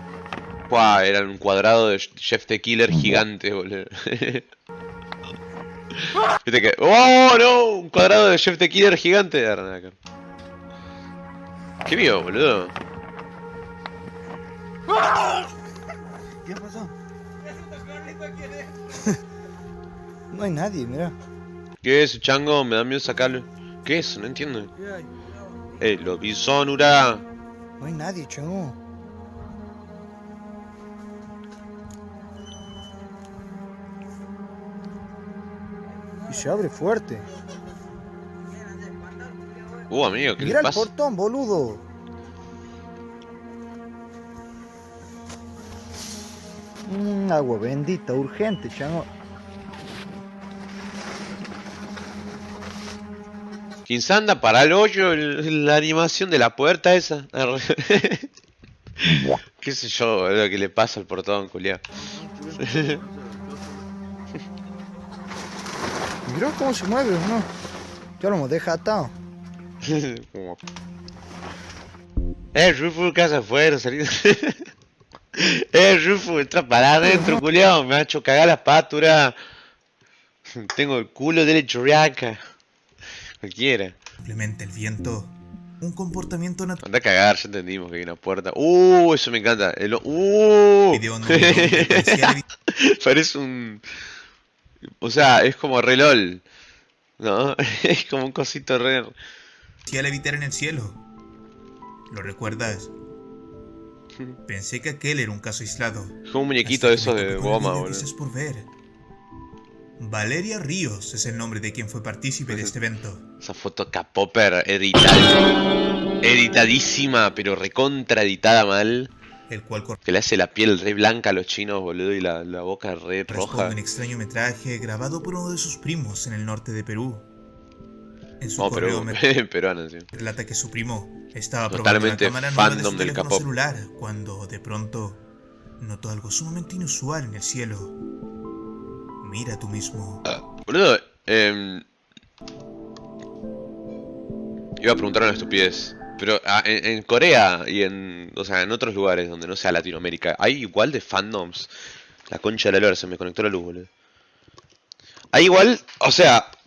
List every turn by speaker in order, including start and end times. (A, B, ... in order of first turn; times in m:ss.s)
0:00.7-0:04.4 A
0:06.4-0:09.9 A
0:11.8-0:12.7 A
0:16.4-0:16.9 B
0:20.3-0:21.1 B
0:21.8-0:24.7 A
0:25.8-0:27.2 A
0:27.8-0:28.8 B
0:36.3-0:37.2 B
0:39.9-0:40.9 A
0:40.4-0:41.8 B
0:46.9-0:49.1 B
0:53.9-0:58.3 A
0:59.0-1:01.8 A
1:02.6-1:03.0 A
1:06.3-1:07.5 B
1:08.2-1:09.1 B
1:09.8-1:10.6 A
1:12.5-1:14.6 A
1:15.4-1:19.4 A
1:17.1-1:17.4 B
1:20.5-1:22.4 A
1:23.4-1:24.0 A
1:24.2-1:26.8 C
1:26.8-1:33.8 A
1:30.9-1:32.4 C
1:35.0-1:36.4 A
1:37.2-1:39.1 A
1:39.8-1:41.0 C
1:42.1-1:42.9 C
1:44.4-1:48.7 C
1:46.3-1:48.1 A
1:50.0-1:53.2 C
1:53.4-1:55.4 A
1:56.2-1:59.1 A
1:59.5-2:00.0 C
2:00.0-2:03.8 A
2:03.3-2:07.3 C
2:08.4-2:09.2 C
2:08.6-2:10.1 A
2:10.1-2:15.2 C
2:11.7-2:13.4 A
2:15.8-2:18.0 C
2:19.2-2:20.2 C
2:20.3-2:21.8 A
2:24.8-2:31.7 A
2:32.3-2:33.9 A
2:35.3-2:36.5 A